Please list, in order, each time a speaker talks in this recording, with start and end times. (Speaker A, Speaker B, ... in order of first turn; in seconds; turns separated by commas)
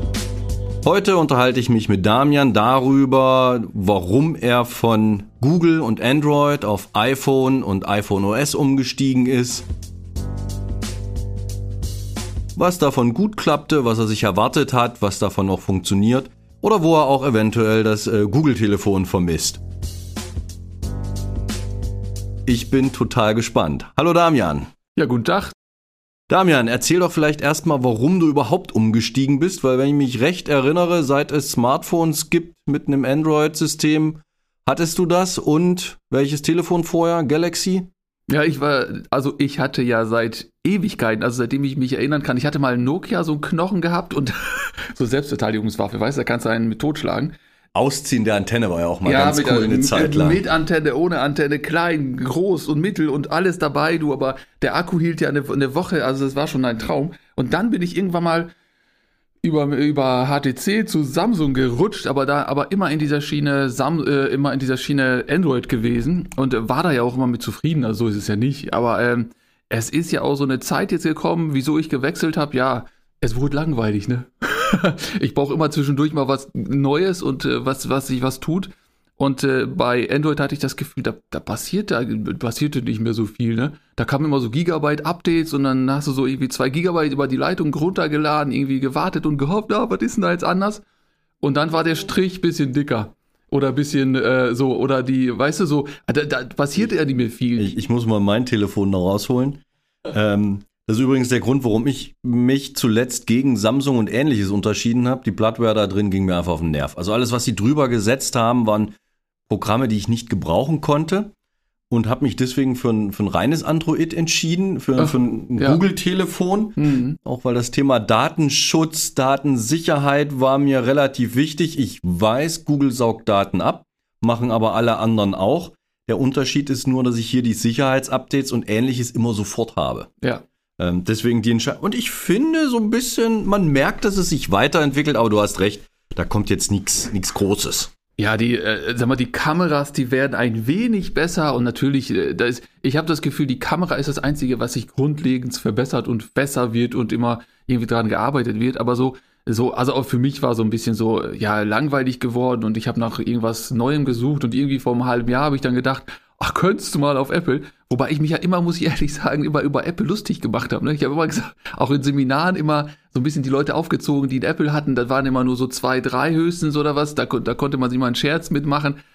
Speaker A: 0.8-9.7, Speaker A: 12.6-19.6, Speaker A: 22.4-24.7, Speaker B: 24.9-25.5, Speaker A: 26.3-37.9, Speaker B: 38.3-47.4, Speaker A: 47.7-50.4, Speaker B: 49.0-58.5, Speaker B: 59.4-90.8, Speaker B: 91.4-97.8, Speaker A: 97.6-109.0, Speaker A: 109.5-111.3, Speaker A: 111.9-130.1, Speaker B: 115.0-115.8, Speaker B: 116.8-117.2, Speaker A: 130.8-137.9, Speaker B: 138.2-169.0